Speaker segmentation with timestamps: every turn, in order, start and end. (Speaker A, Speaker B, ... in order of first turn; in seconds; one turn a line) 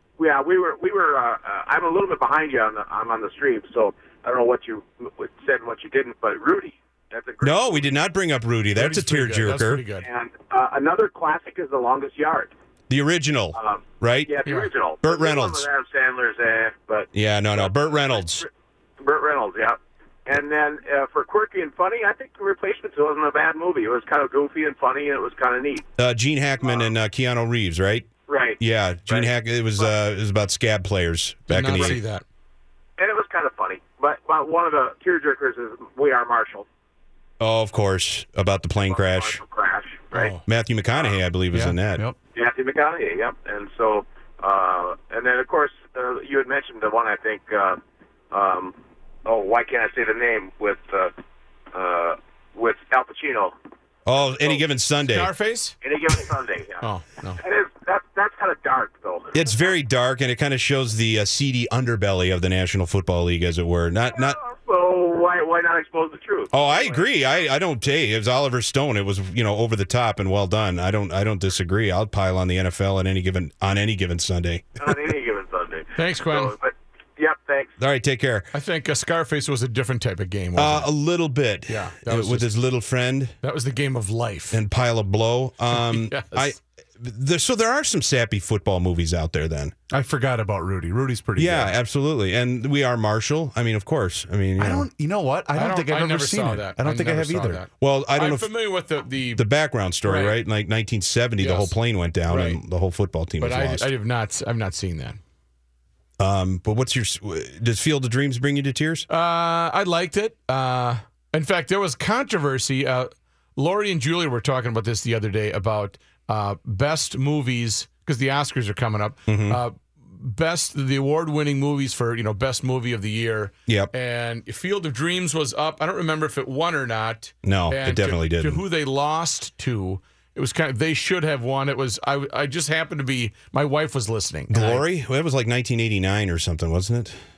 Speaker A: 0.2-7.9
Speaker B: 7.4-9.8
Speaker C: 8.8-10.1
Speaker A: 10.0-12.5
Speaker B: 12.9-14.3
Speaker A: 13.5-18.5
Speaker B: 15.0-15.7
Speaker B: 17.1-18.4
Speaker A: 19.0-25.9
Speaker B: 26.0-28.1
Speaker A: 26.6-26.9
Speaker A: 28.3-29.9
Speaker B: 28.6-32.0
Speaker C: 31.5-32.2
Speaker A: 33.0-36.6
Speaker B: 37.4-39.4
Speaker A: 38.8-40.4
Speaker C: 40.1-40.4
Speaker B: 40.4-42.0
Speaker D: 41.5-42.2
Speaker A: 42.4-47.8
Speaker A: 48.3-51.1
Speaker A: 51.7-53.5
Speaker B: 54.0-55.3
Speaker C: 55.0-55.8
Speaker A: 55.8-56.9
Speaker C: 56.8-57.4
Speaker A: 57.4-59.7
Speaker B: 59.3-64.4
Speaker A: 64.1-67.0
Speaker B: 66.5-74.9
Speaker A: 74.8-77.7
Speaker C: 76.0-76.6
Speaker B: 77.8-78.5
Speaker C: 78.5-80.9
Speaker B: 80.5-83.3
Speaker C: 81.7-82.5
Speaker C: 83.4-84.6
Speaker B: 84.5-89.8
Speaker C: 85.7-86.5
Speaker D: 89.9-91.7
Speaker B: 91.4-94.9
Speaker D: 94.6-97.6
Speaker C: 95.5-99.4
Speaker B: 97.8-98.5
Speaker B: 99.3-103.9
Speaker C: 100.0-100.4
Speaker C: 101.4-101.7
Speaker C: 102.3-102.6
Speaker C: 103.4-105.2
Speaker B: 106.2-109.1
Speaker C: 109.1-134.8
Speaker B: 119.3-119.6
Speaker B: 127.4-128.6
Speaker B: 134.5-137.2